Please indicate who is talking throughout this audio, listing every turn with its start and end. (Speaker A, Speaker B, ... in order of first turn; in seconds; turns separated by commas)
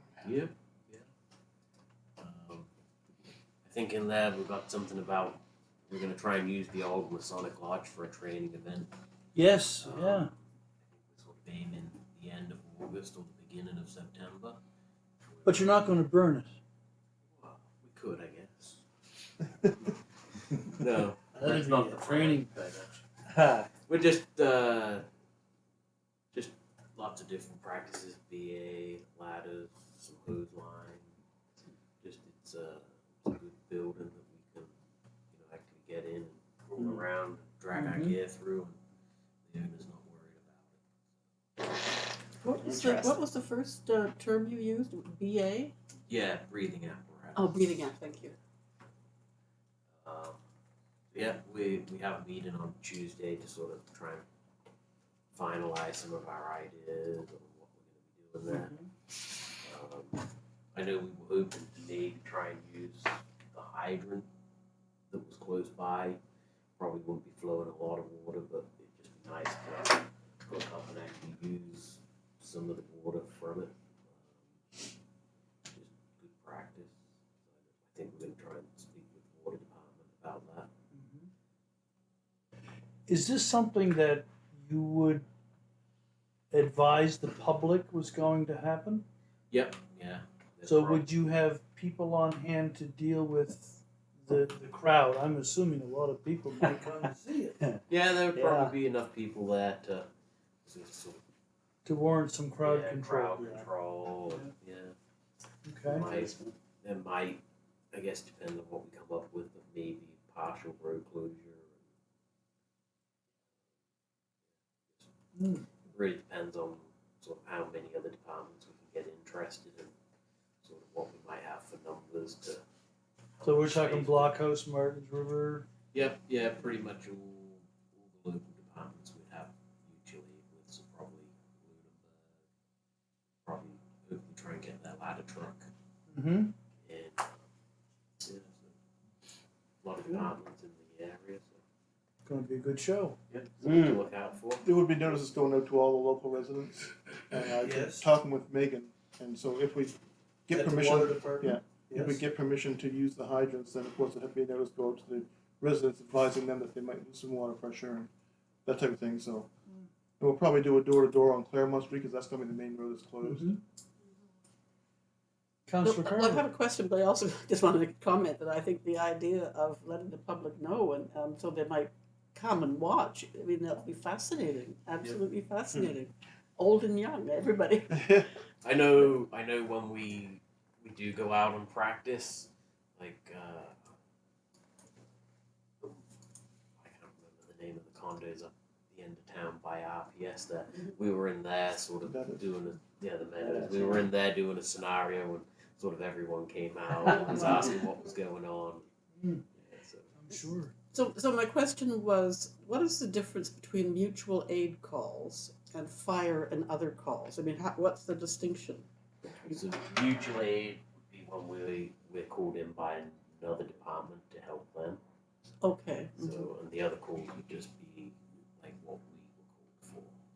Speaker A: 0.2-1.0, Speaker A: 2.2-2.7, Speaker A: 3.6-8.9, Speaker B: 9.3-10.3, Speaker A: 9.8-10.3, Speaker A: 10.9-14.6, Speaker A: 15.2-15.9, Speaker B: 15.4-16.6, Speaker A: 17.3-18.8, Speaker A: 19.6-19.9, Speaker A: 20.5-23.0, Speaker B: 21.3-22.5, Speaker C: 23.3-23.7, Speaker A: 23.9-25.1, Speaker A: 26.3-31.0, Speaker A: 32.0-34.7, Speaker A: 35.3-38.8, Speaker B: 37.7-38.2, Speaker A: 39.5-40.8, Speaker D: 42.4-45.7, Speaker C: 42.6-43.2, Speaker A: 46.1-47.9, Speaker D: 47.3-48.4, Speaker A: 50.0-50.4, Speaker A: 51.1-54.2, Speaker A: 55.3-64.3, Speaker B: 58.5-58.9, Speaker A: 65.1-66.2, Speaker A: 66.8-74.8, Speaker A: 75.7-77.0, Speaker A: 77.5-80.7, Speaker B: 80.9-81.3, Speaker B: 83.1-85.2, Speaker B: 86.5-89.0, Speaker A: 89.5-91.1, Speaker B: 90.6-97.6, Speaker A: 97.9-100.1, Speaker C: 98.3-98.7, Speaker A: 100.6-101.2, Speaker B: 101.8-103.7, Speaker A: 102.6-105.0, Speaker B: 104.3-104.5, Speaker B: 105.7-106.1, Speaker A: 105.8-111.8, Speaker C: 106.0-106.5, Speaker B: 115.3-115.7, Speaker A: 115.8-119.9, Speaker A: 120.6-122.6, Speaker A: 123.4-124.3, Speaker B: 123.4-125.7, Speaker A: 125.9-132.4, Speaker A: 133.4-135.7, Speaker B: 136.1-136.5, Speaker A: 136.8-137.4, Speaker A: 138.2-138.7, Speaker A: 139.8-141.6, Speaker B: 142.2-143.2, Speaker A: 143.3-144.7, Speaker C: 143.6-144.0, Speaker E: 144.6-158.1, Speaker B: 147.6-148.1, Speaker B: 150.5-152.2, Speaker E: 158.6-159.5, Speaker E: 160.2-163.6, Speaker B: 163.2-163.6, Speaker B: 165.7-166.5, Speaker D: 165.8-178.0, Speaker A: 178.6-183.8, Speaker A: 186.8-198.8, Speaker E: 192.0-192.4, Speaker C: 193.4-194.0, Speaker B: 199.2-199.4, Speaker A: 199.6-200.1, Speaker B: 200.2-200.7, Speaker D: 200.9-208.8, Speaker A: 209.4-215.0, Speaker D: 215.6-216.5, Speaker A: 216.2-220.2